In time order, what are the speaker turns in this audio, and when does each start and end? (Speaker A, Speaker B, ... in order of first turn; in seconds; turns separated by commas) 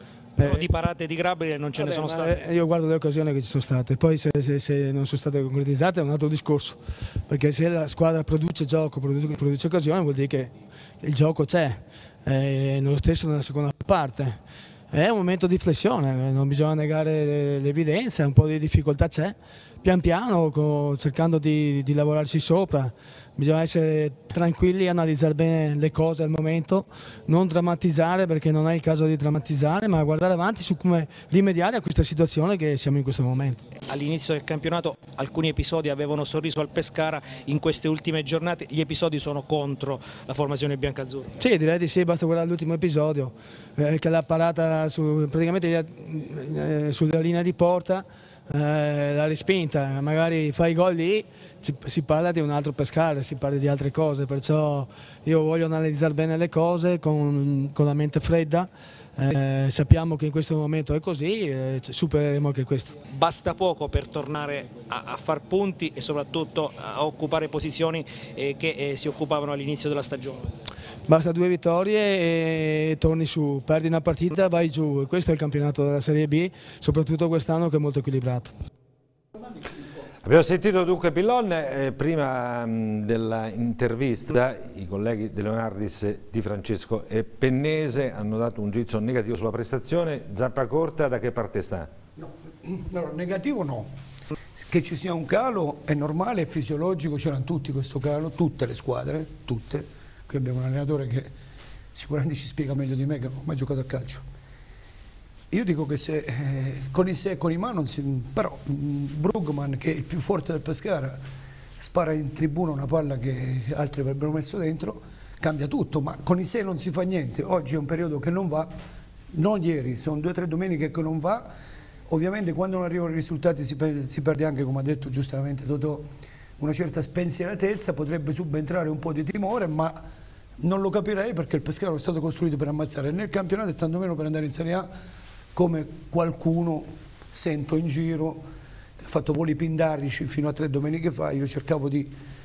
Speaker A: 0.4-0.7, Speaker B: 0.4-2.4, Speaker A: 1.7-33.6, Speaker B: 33.8-41.4, Speaker A: 41.4-63.0, Speaker B: 63.0-70.5, Speaker A: 71.1-78.5, Speaker C: 80.2-91.9, Speaker D: 92.2-93.9, Speaker D: 94.6-101.3, Speaker D: 101.9-104.2, Speaker D: 105.5-111.2, Speaker D: 111.8-118.7, Speaker D: 119.3-121.5, Speaker D: 122.1-126.0, Speaker D: 126.6-130.0, Speaker D: 130.6-134.9, Speaker D: 135.5-138.4, Speaker D: 139.0-142.1